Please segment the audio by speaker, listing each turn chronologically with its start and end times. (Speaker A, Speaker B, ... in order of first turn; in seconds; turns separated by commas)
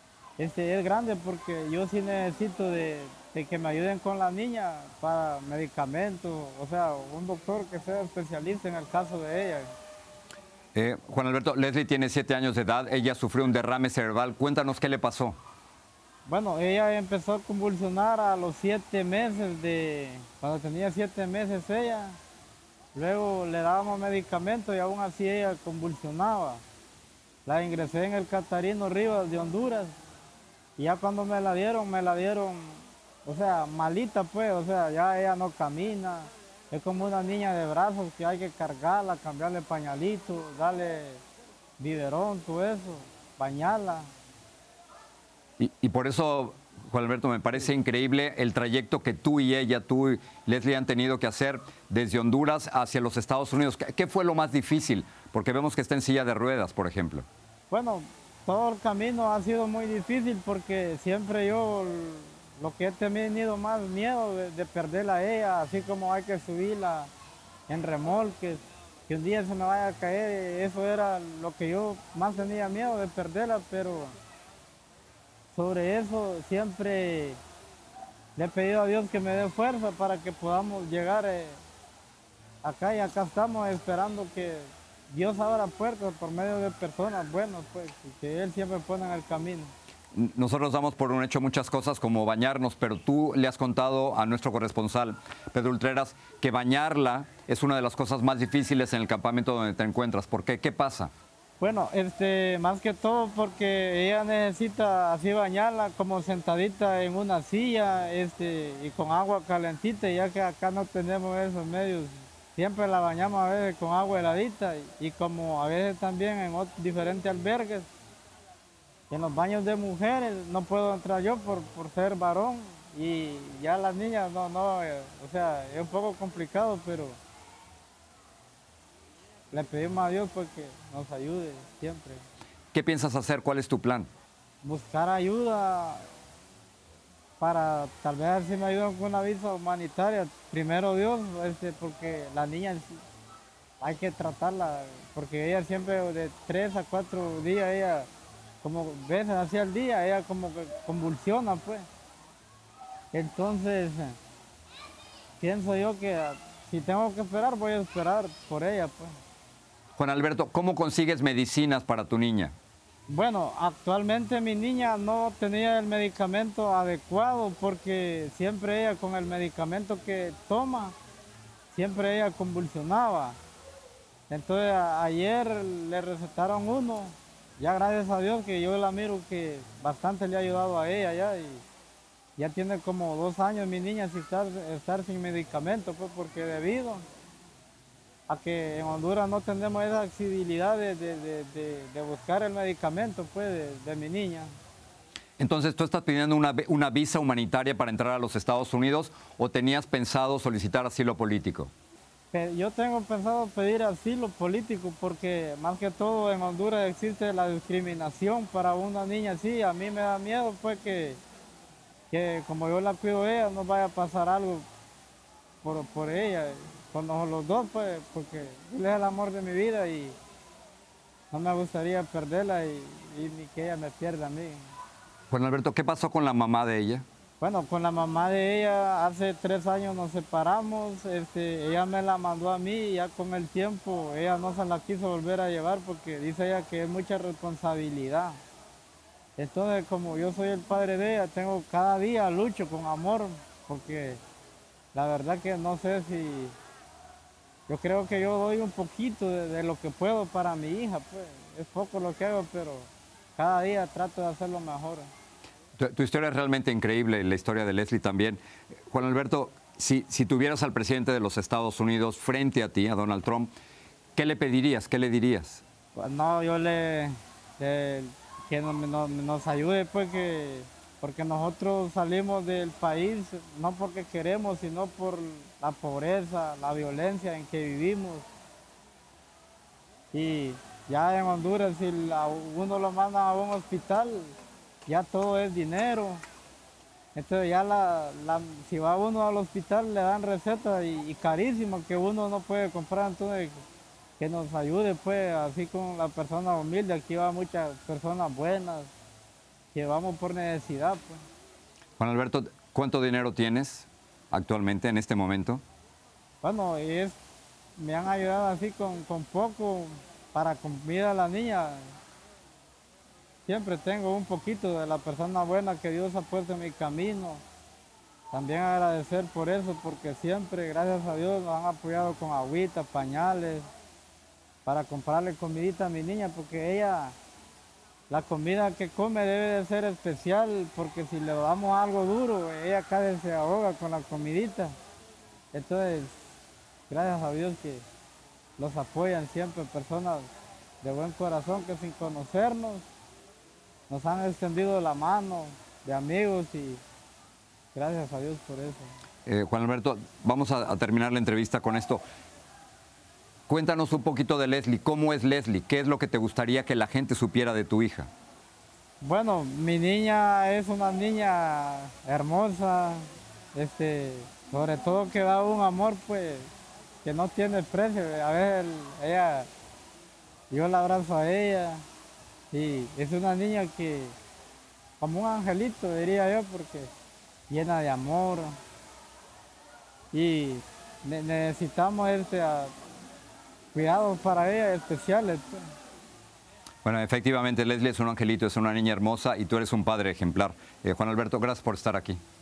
Speaker A: 0.4-9.7, Speaker B: 10.7-15.4, Speaker A: 16.2-22.2, Speaker A: 22.9-26.6, Speaker A: 27.4-29.9, Speaker A: 30.8-41.2, Speaker A: 41.8-44.1, Speaker B: 45.6-57.3, Speaker A: 57.7-67.1, Speaker A: 67.7-74.1, Speaker A: 75.5-77.4, Speaker A: 78.3-81.6, Speaker A: 82.6-89.7, Speaker B: 90.1-101.1, Speaker A: 101.6-117.9, Speaker A: 119.1-127.2, Speaker A: 129.5-132.2, Speaker B: 132.7-134.1, Speaker A: 134.6-136.0, Speaker A: 137.4-143.0, Speaker A: 143.8-148.1, Speaker A: 148.6-151.8, Speaker A: 153.1-154.2, Speaker A: 155.4-159.1, Speaker B: 159.9-162.5, Speaker A: 163.1-170.9, Speaker A: 171.7-173.4, Speaker A: 174.3-181.6, Speaker A: 182.4-187.1, Speaker A: 188.3-194.5, Speaker B: 195.4-201.7, Speaker A: 202.3-211.2, Speaker A: 212.1-214.7, Speaker A: 215.6-220.2, Speaker A: 221.3-224.6, Speaker B: 225.3-227.1, Speaker A: 227.4-238.4, Speaker A: 239.4-244.2, Speaker A: 244.9-246.5, Speaker A: 247.7-255.1, Speaker B: 255.8-263.5, Speaker B: 264.1-265.6, Speaker A: 265.9-278.3, Speaker A: 280.1-284.3, Speaker A: 284.9-286.2, Speaker A: 287.1-293.6, Speaker A: 294.2-298.9, Speaker A: 299.7-301.2, Speaker B: 302.0-305.6, Speaker A: 306.4-307.2, Speaker A: 307.8-311.9, Speaker A: 313.4-317.4, Speaker A: 318.3-323.7, Speaker A: 324.6-327.1, Speaker A: 328.1-334.7, Speaker A: 335.5-336.2, Speaker A: 336.9-337.8, Speaker A: 338.6-340.3, Speaker A: 340.8-342.8, Speaker A: 343.9-346.8, Speaker A: 347.7-348.9, Speaker B: 349.2-352.0, Speaker B: 353.5-358.1, Speaker A: 359.0-366.5, Speaker A: 367.0-369.5, Speaker A: 370.5-371.8, Speaker A: 372.5-374.1, Speaker A: 375.0-376.9, Speaker A: 377.5-378.6, Speaker A: 380.1-382.7, Speaker A: 383.7-385.7, Speaker B: 386.8-392.2